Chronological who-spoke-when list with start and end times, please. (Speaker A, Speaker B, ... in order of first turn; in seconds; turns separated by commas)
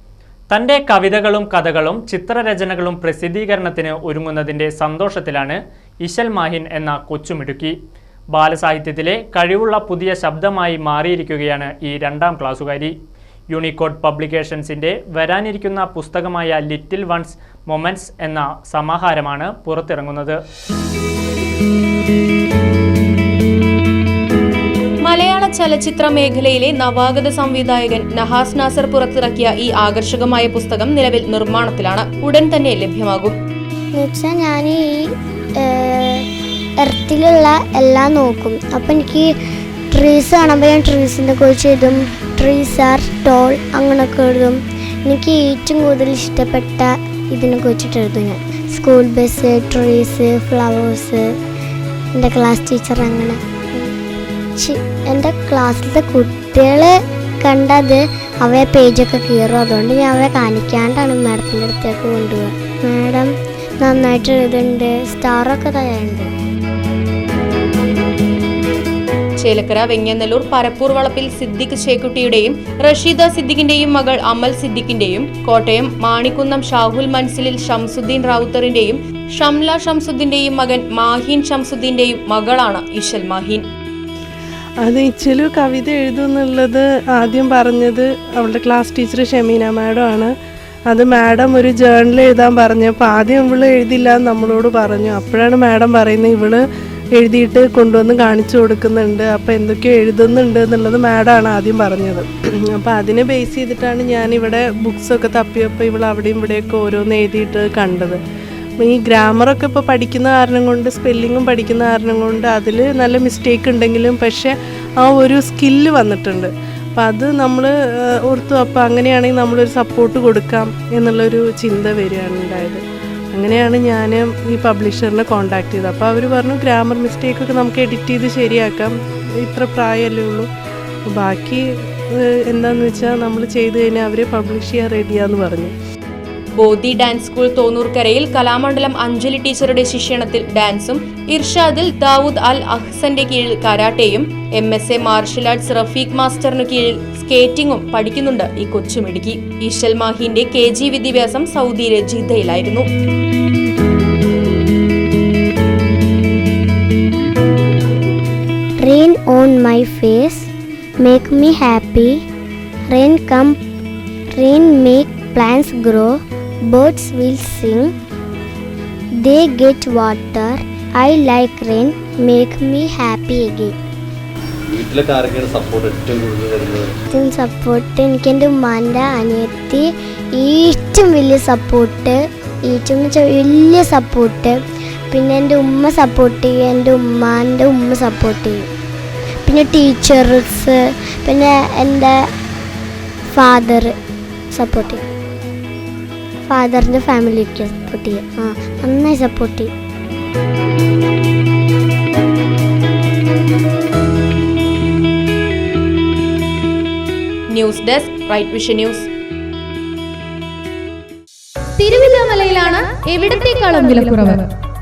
Speaker A: 0.5-7.7, Speaker A: 8.3-12.9, Speaker A: 13.5-20.4, Speaker B: 25.0-33.4, Speaker C: 33.9-36.3, Speaker C: 36.8-39.3, Speaker C: 39.9-51.2, Speaker C: 52.1-53.9, Speaker C: 54.6-66.3, Speaker B: 69.4-83.6, Speaker D: 84.8-90.3, Speaker D: 90.9-96.6, Speaker D: 97.2-108.2, Speaker D: 108.8-117.7, Speaker D: 118.3-130.5, Speaker D: 131.1-135.7, Speaker B: 136.6-152.8, Speaker C: 158.8-160.5, Speaker C: 161.0-162.2, Speaker C: 162.9-163.6, Speaker C: 164.4-167.9, Speaker C: 169.2-173.7, Speaker E: 174.7-176.9, Speaker C: 177.1-184.6, Speaker C: 185.1-188.7, Speaker C: 189.4-192.2, Speaker C: 193.3-193.9, Speaker C: 194.5-195.0, Speaker C: 196.5-199.7, Speaker B: 207.5-209.1, Speaker F: 211.8-214.5